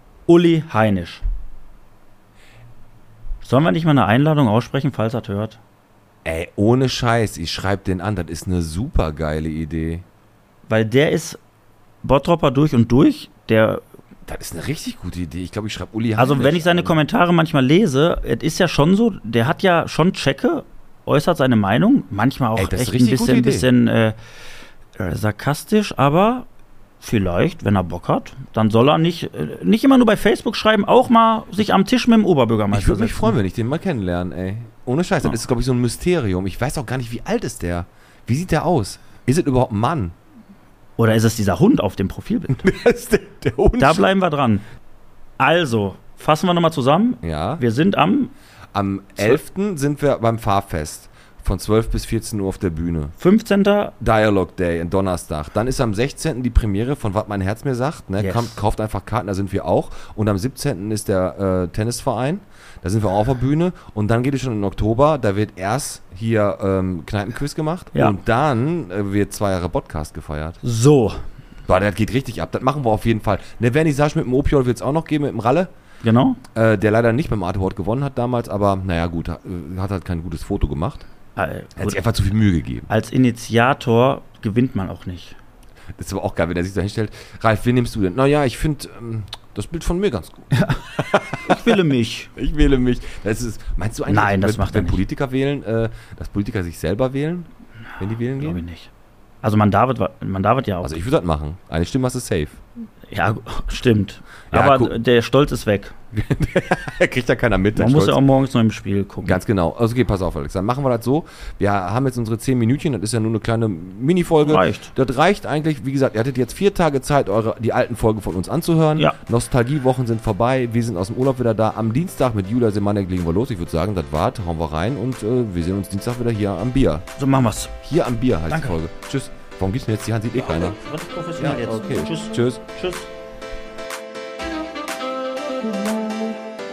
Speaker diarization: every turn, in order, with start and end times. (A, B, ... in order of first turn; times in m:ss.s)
0:00.3-0:01.2 A
0:03.4-0:05.6 A
0:06.2-0:10.0 B
0:10.7-0:11.4 A
0:12.0-0:13.8 A
0:14.2-0:17.0 B
0:16.2-0:24.2 A
0:22.6-0:23.7 B
0:25.0-0:26.5 A
0:27.0-0:33.4 A
0:32.7-0:40.1 B
0:41.0-0:42.7 A
0:42.5-0:44.0 B
0:43.8-0:44.6 A
0:45.4-0:48.3 A
0:47.2-0:47.6 B
0:48.7-0:53.1 B
0:53.2-0:53.9 A
0:54.0-1:10.6 B
0:58.2-0:58.6 A
1:10.6-1:11.2 A
1:11.7-1:15.7 B
1:16.0-1:16.4 A
1:16.5-1:21.1 B
1:21.4-1:22.0 A
1:21.8-1:22.9 B
1:22.9-1:25.4 A
1:26.0-1:31.8 B
1:30.5-1:30.9 A
1:31.4-1:32.3 A
1:32.4-1:38.6 B
1:34.1-1:35.0 A
1:38.3-1:38.9 A
1:39.4-1:41.0 A
1:40.8-1:42.6 B
1:43.1-1:45.9 A
1:44.5-1:45.0 B
1:46.1-1:48.2 B
1:47.7-1:49.4 A
1:49.2-2:07.0 B
1:54.4-1:54.9 A
2:07.2-2:07.7 A
2:07.8-2:10.8 B
2:08.5-2:08.8 A
2:10.4-2:13.1 A
2:11.4-2:12.6 B